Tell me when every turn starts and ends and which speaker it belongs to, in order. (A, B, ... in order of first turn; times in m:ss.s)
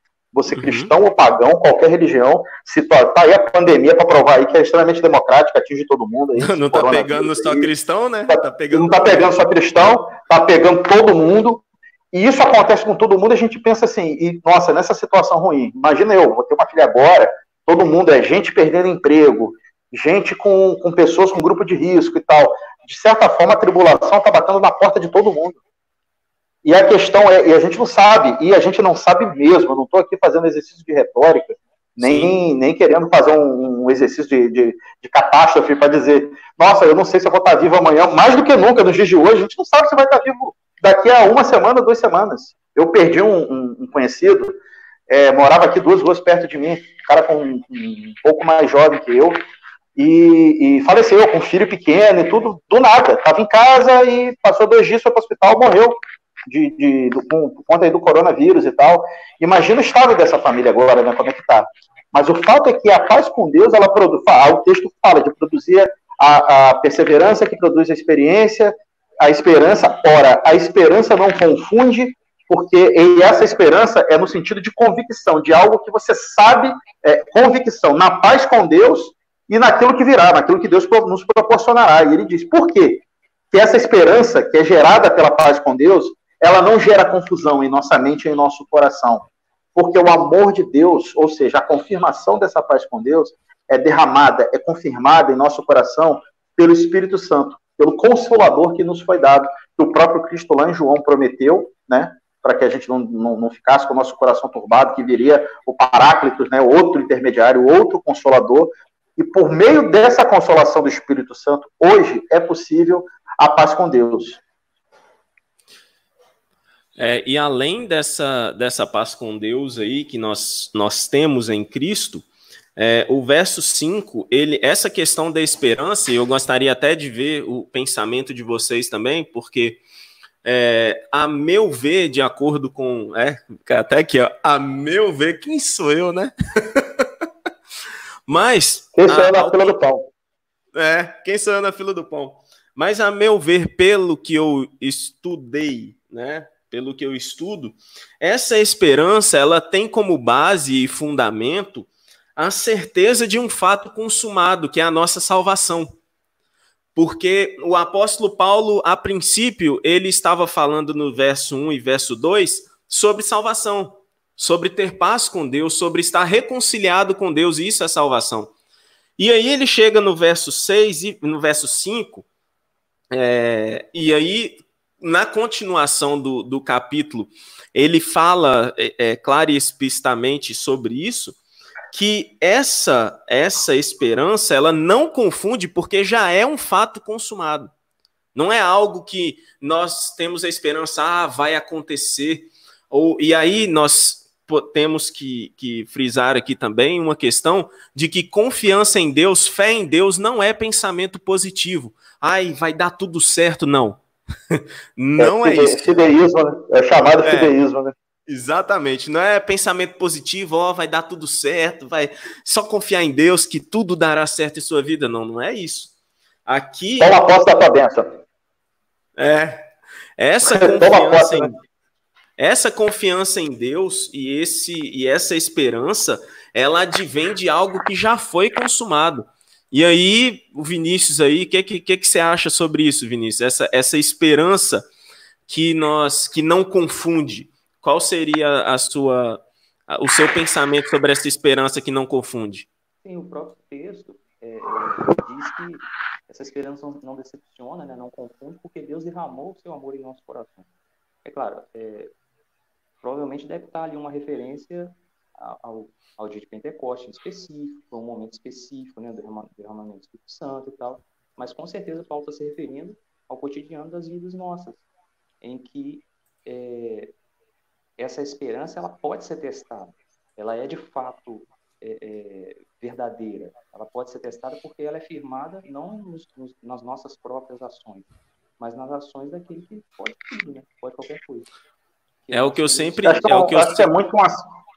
0:00.3-0:07.7 A
0:00.5-0:00.9 B
0:06.4-0:09.3 B
0:08.3-0:25.6 A
0:26.6-0:49.4 A
0:32.0-0:32.4 B
0:50.0-1:54.4 A
1:57.0-2:02.3 B
2:02.8-2:09.8 B
2:10.4-2:17.1 B
2:18.3-2:19.8 B
2:19.0-2:20.1 A
2:20.7-2:35.9 B
2:37.0-2:48.5 B
2:49.2-2:52.3 B
2:53.1-3:01.4 B
3:01.9-3:07.7 B
3:08.4-3:24.0 B
3:24.5-3:25.9 B
3:25.2-3:28.0 A
3:27.2-3:27.5 B
3:28.3-3:35.9 B
3:36.5-3:37.2 B
3:37.0-3:38.1 A
3:39.2-3:39.7 B
3:40.2-3:41.6 B
3:40.4-3:41.5 A
3:42.4-3:54.9 B
3:55.5-4:02.7 B
4:03.0-4:10.7 C
4:11.2-4:12.1 C
4:13.0-4:24.8 C
4:25.4-4:27.1 C
4:28.0-4:38.1 C
4:38.6-4:41.5 C
4:42.2-4:43.4 C
4:42.3-4:43.9 B
4:43.0-4:44.4 A